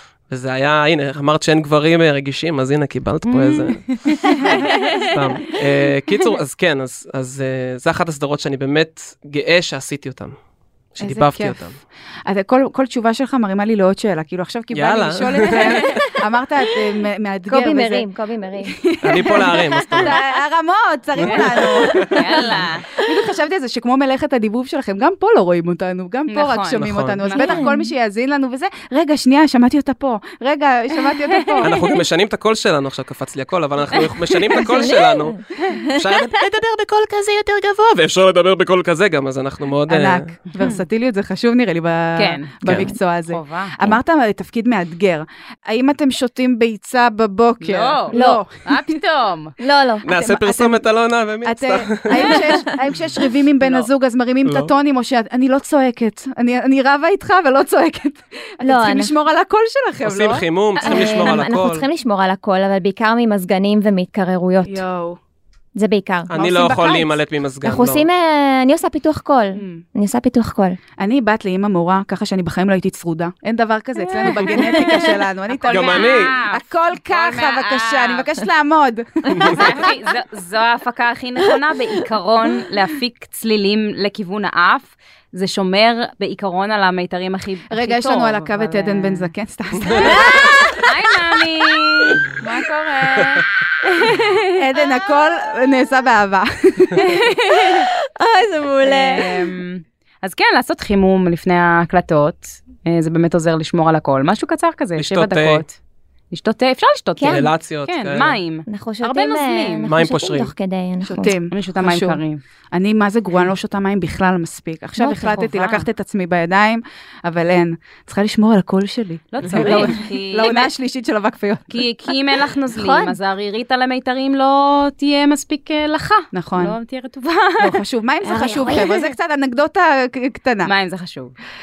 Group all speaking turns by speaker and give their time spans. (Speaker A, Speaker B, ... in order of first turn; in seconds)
Speaker A: 0.3-3.9, 5.0-10.3, 10.9-11.8, 14.7-16.0, 19.0-20.1, 21.1-22.2, 26.8-27.2, 31.6-40.3, 42.6-42.9, 50.0-52.6, 54.4-54.7, 60.0-61.9, 66.3-68.1, 75.7-76.3, 79.3-79.6, 105.0-105.6, 107.2-108.4, 109.9-110.5, 119.4-119.8
Speaker B: 3.3-5.1, 22.1-22.9, 26.3-27.7, 40.6-40.8, 42.1-42.6, 43.2-43.8, 47.6-49.5, 53.6-53.9, 74.5-78.3, 79.4-89.3, 89.9-94.4, 97.0-97.9, 98.8-105.8, 106.3-109.9, 111.5-112.4, 115.0-115.9, 119.3-120.7, 121.7-127.8, 130.6-131.3
Speaker C: 11.0-11.6, 12.2-18.1, 18.6-31.7, 39.9-49.0, 50.1-50.8, 51.4-60.4, 64.7-65.2, 66.3-67.1, 69.6-69.8, 71.0-79.9, 87.7-90.8, 94.5-97.1, 111.0-112.2, 112.7-121.8, 126.3-126.8, 127.6-130.7
Speaker D: 17.5-18.7, 19.3-20.1, 21.6-22.1, 27.3-27.9, 34.6-36.0, 42.7-42.9, 48.1-48.4, 49.6-50.1, 58.6-59.1, 60.8-64.8, 65.7-66.3, 67.6-70.8, 74.5-75.0, 90.2-90.8, 97.5-99.3, 107.2-107.5, 108.7-111.3, 122.7-123.2, 128.2-129.1